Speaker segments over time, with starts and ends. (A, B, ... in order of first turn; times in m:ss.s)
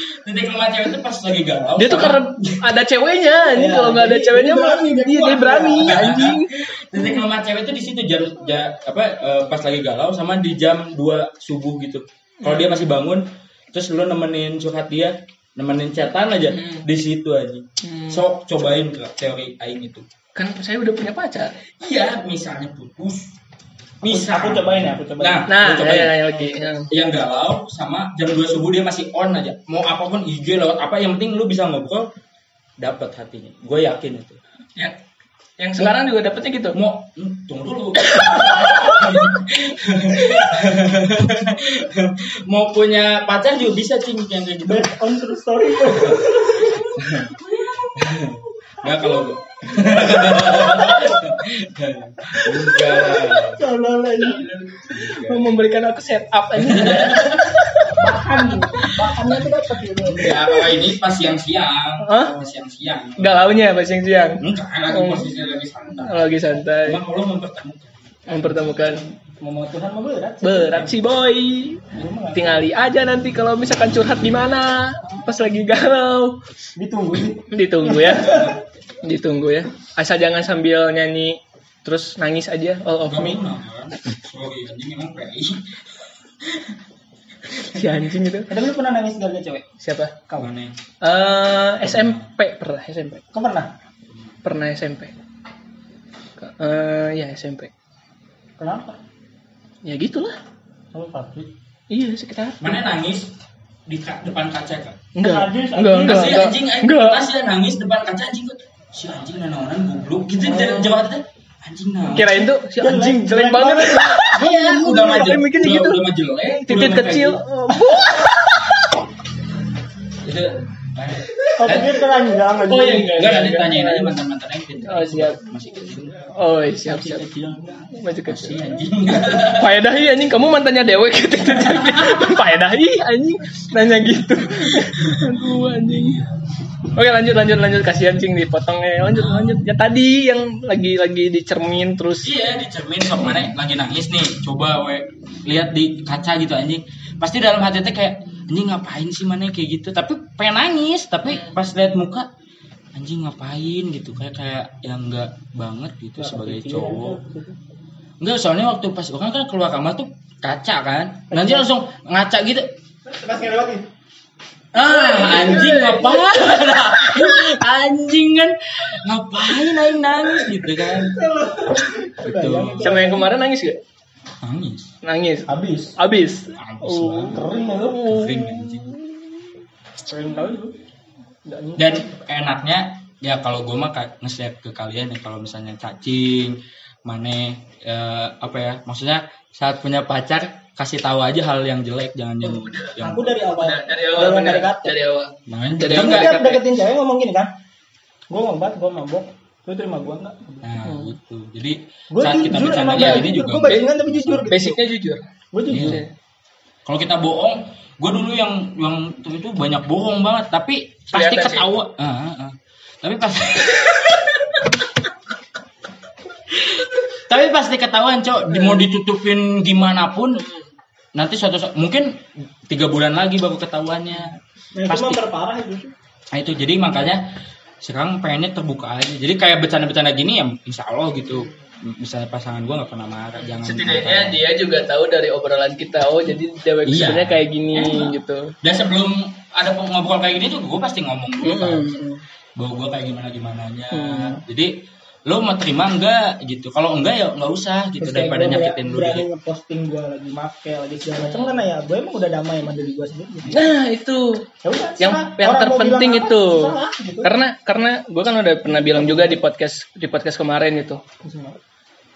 0:00.2-0:02.6 A
0:01.8-0:06.7 B
0:03.4-0:06.2 C
0:05.8-0:20.1 A
0:12.4-0:12.8 B
0:16.5-0:16.8 B
0:17.8-0:18.2 B
0:20.4-0:21.6 B
0:21.8-0:23.3 A
0:24.0-0:26.3 A
0:24.0-0:25.5 C
0:25.5-0:26.9 B
0:26.4-0:26.7 C
0:26.9-0:32.1 A
0:32.8-0:34.4 A
0:35.6-0:36.8 B
0:36.7-0:45.0 A
0:38.0-0:39.3 B
0:44.6-0:47.8 C
0:45.9-0:53.6 A
0:48.8-0:51.4 C
0:52.4-0:54.8 C
0:54.8-0:55.6 A
0:54.9-0:58.1 B
0:56.6-0:57.6 A
0:57.9-1:00.8 C
0:58.9-1:03.6 A
1:02.0-1:02.4 B
1:03.2-1:05.3 B
1:04.4-1:08.6 A
1:06.0-1:07.0 B
1:08.3-1:09.0 B
1:08.9-1:10.9 C
1:10.4-1:16.4 B
1:11.9-1:12.6 C
1:16.8-1:18.6 C
1:17.5-1:23.4 B
1:18.2-1:18.6 A
1:23.1-1:26.8 A
1:27.6-1:27.8 A
1:27.6-1:28.5 B
1:28.5-1:29.7 C
1:29.8-1:30.2 B
1:30.4-1:30.8 A
1:31.0-1:33.2 B
1:31.8-1:32.2 A
1:33.3-1:33.7 C
1:34.4-1:35.1 B
1:36.4-1:37.7 B
1:38.6-1:39.0 C
1:39.8-1:40.4 B
1:40.9-1:41.5 C
1:41.9-1:42.7 B
1:42.6-1:43.3 A
1:43.9-1:45.0 A
1:45.2-1:47.2 B
1:45.2-1:46.4 C
1:46.0-1:52.5 A
1:50.4-1:50.9 B
1:52.1-1:58.9 B
1:52.8-1:55.4 C
1:54.3-1:57.4 A
2:00.2-2:02.0 A
2:01.4-2:01.8 B
2:01.6-2:03.4 C
2:02.6-2:04.2 B
2:03.2-2:06.3 A
2:04.8-2:05.5 B
2:06.2-2:07.2 B
2:06.8-2:08.0 C
2:07.9-2:16.2 B
2:08.3-2:09.8 A
2:11.7-2:12.4 A
2:14.8-2:16.4 A
2:16.9-2:22.3 B
2:19.1-2:19.6 A
2:22.2-2:32.3 A
2:33.0-2:37.2 A
2:36.2-2:37.6 C
2:38.2-2:42.7 A
2:41.3-2:41.7 C
2:43.1-2:43.9 C
2:44.8-2:46.7 B
2:44.8-2:51.2 A
2:51.0-2:53.3 C
2:52.2-2:52.9 A
2:52.8-2:53.8 B
2:54.4-2:54.9 A
2:55.0-2:59.0 B
2:55.5-2:56.0 C
2:56.6-2:59.0 A
2:57.3-2:58.1 C
3:00.0-3:00.8 C
3:01.5-3:02.2 C
3:01.8-3:13.5 A
3:12.4-3:12.9 B
3:13.0-3:15.0 C
3:13.5-3:16.6 B
3:15.5-3:16.4 A
3:15.8-3:17.5 C
3:18.3-3:20.8 C
3:20.6-3:24.5 A
3:22.1-3:24.8 C
3:23.0-3:23.9 B
3:24.5-3:26.1 B
3:25.5-3:26.0 C
3:25.7-3:26.0 A
3:26.9-3:34.5 A
3:31.1-3:31.7 B
3:36.5-3:40.5 A
3:41.1-3:44.4 A
3:44.8-3:45.9 C
3:44.9-3:45.2 A
3:46.3-3:54.4 A
3:53.5-3:58.5 B
3:56.9-4:02.0 A
4:01.4-4:02.2 B
4:02.6-4:04.7 A
4:03.9-4:04.4 B
4:05.3-4:09.3 A
4:08.0-4:13.6 C
4:13.5-4:14.4 B
4:14.6-4:17.3 C
4:15.0-4:21.0 B
4:18.7-4:19.4 C
4:21.2-4:21.6 C